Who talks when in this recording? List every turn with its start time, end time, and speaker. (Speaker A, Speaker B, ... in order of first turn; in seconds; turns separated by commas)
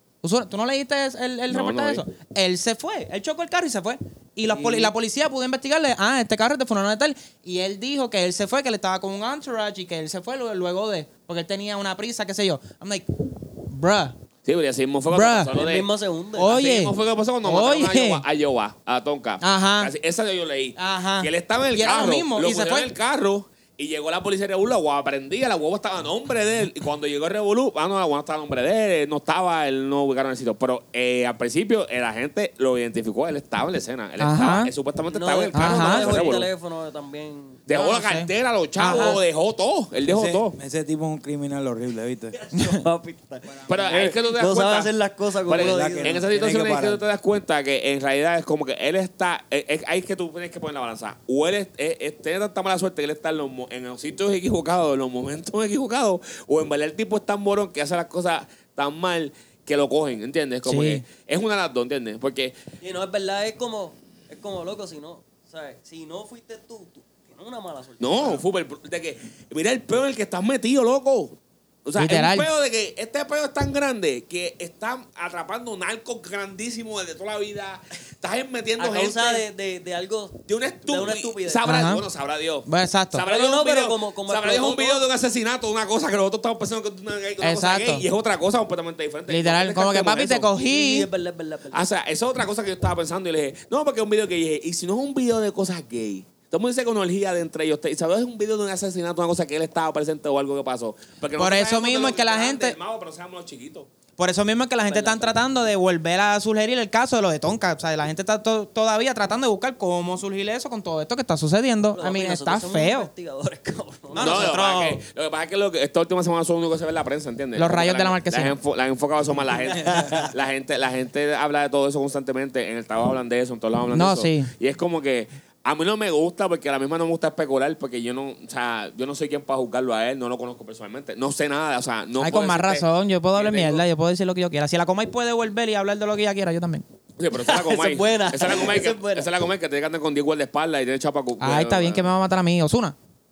Speaker A: 0.2-14.2, Speaker B: 1.5-2.0, Speaker C: 4.5-5.0, Speaker B: 14.4-36.5, Speaker A: 15.1-15.5, Speaker C: 15.5-16.5, Speaker A: 16.4-18.2, Speaker A: 19.4-19.9, Speaker A: 20.8-22.9, Speaker A: 34.2-34.7, Speaker C: 35.1-37.6, Speaker A: 35.5-36.1, Speaker B: 37.7-40.6, Speaker A: 37.7-39.2, Speaker D: 40.0-42.4, Speaker C: 42.3-46.2, Speaker A: 42.5-42.8, Speaker D: 43.5-44.1, Speaker B: 43.7-44.9, Speaker B: 45.5-62.6, Speaker D: 45.5-47.0, Speaker A: 60.7-61.0, Speaker C: 62.8-68.4, Speaker B: 68.0-79.4, Speaker A: 72.0-72.5, Speaker C: 78.8-81.7, Speaker B: 80.5-90.5, Speaker A: 81.6-82.0, Speaker A: 82.7-83.2, Speaker C: 83.2-85.0, Speaker A: 87.4-88.1, Speaker A: 89.3-91.1, Speaker C: 90.5-91.9, Speaker B: 91.7-103.9, Speaker A: 101.4-102.8, Speaker A: 104.2-113.1, Speaker C: 104.8-105.4, Speaker C: 111.9-114.6, Speaker A: 114.1-115.0, Speaker B: 114.2-133.8, Speaker A: 117.6-118.6, Speaker C: 119.7-120.2, Speaker D: 119.7-120.3, Speaker A: 123.9-124.5, Speaker A: 132.2-136.8, Speaker B: 137.2-142.1, Speaker C: 137.4-139.3, Speaker A: 141.4-143.0